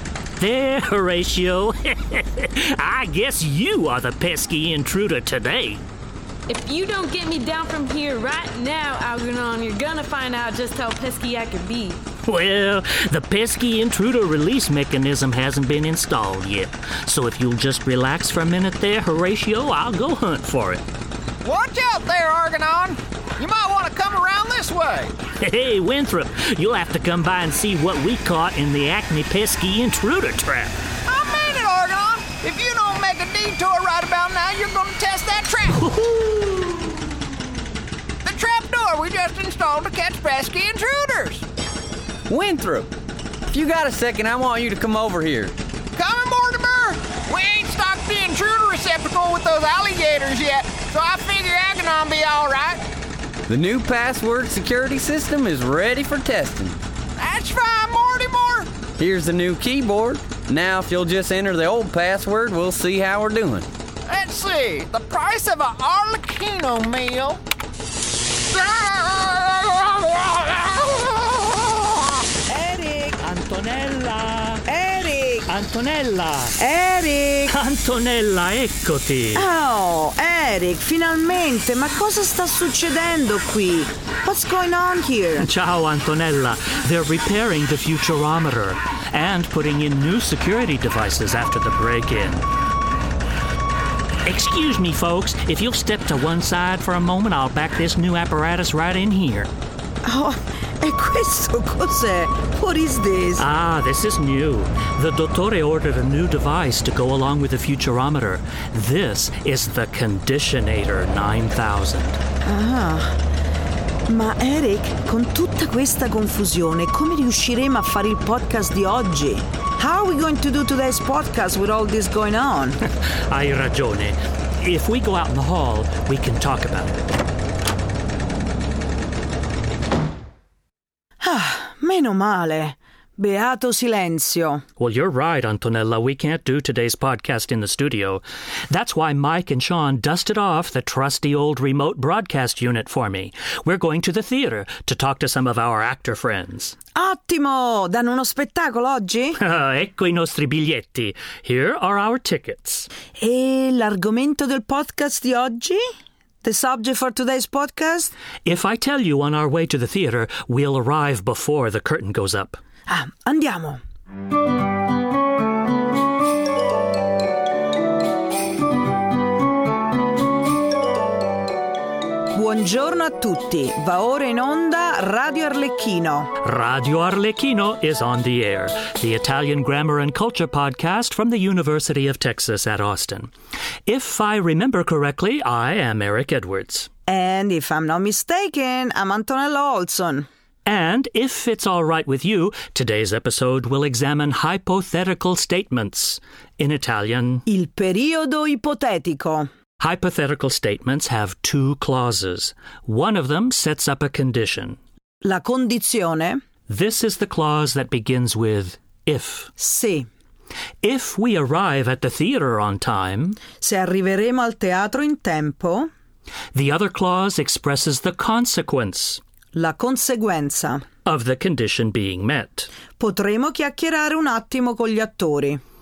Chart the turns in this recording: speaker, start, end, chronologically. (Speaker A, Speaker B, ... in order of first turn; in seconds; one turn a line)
Speaker A: 0.4-5.8
Speaker B: 6.5-12.0
Speaker A: 12.2-20.8
Speaker C: 21.4-25.1
Speaker A: 25.4-30.7
Speaker C: 31.1-35.8
Speaker A: 35.8-36.6
Speaker C: 38.2-41.4
Speaker D: 42.3-42.9
Speaker D: 43.5-45.6
Speaker C: 46.0-52.8
Speaker D: 53.5-56.8
Speaker C: 57.2-58.7
Speaker D: 59.0-63.7
Speaker C: 64.1-67.4
Speaker C: 68.4-72.1
Speaker E: 72.5-73.2
Speaker A: 73.2-74.7
Speaker E: 74.7-75.5
Speaker A: 75.5-76.6
Speaker E: 76.6-77.5
Speaker A: 77.5-79.5
Speaker E: 79.3-85.5
Speaker A: 85.4-92.4
Speaker A: 94.2-99.5
Speaker E: 100.0-103.4
Speaker A: 103.4-112.2
Speaker E: 112.5-113.2
Speaker E: 114.1-122.8
Speaker A: 123.3-127.0
Speaker E: 131.2-134.6
Speaker A: 134.8-146.8
Speaker E: 146.9-149.4
Speaker A: 149.4-152.9
Speaker E: 153.2-155.8
Speaker E: 156.4-158.1
Speaker A: 158.4-162.6
Speaker E: 162.9-163.8
Speaker E: 172.3-176.3
Speaker A: 176.4-183.3
Speaker A: 183.8-186.9
Speaker E: 187.1-190.3
Speaker A: 190.6-197.4
Speaker E: 197.4-199.5
Speaker A: 199.8-204.8
Speaker E: 205.2-206.4
Speaker A: 206.7-209.5
Speaker E: 209.6-210.1
Speaker A: 210.8-213.4
Speaker E: 213.6-215.9
Speaker A: 216.5-219.2
Speaker E: 219.5-220.8
Speaker A: 221.0-222.7
Speaker E: 223.0-225.6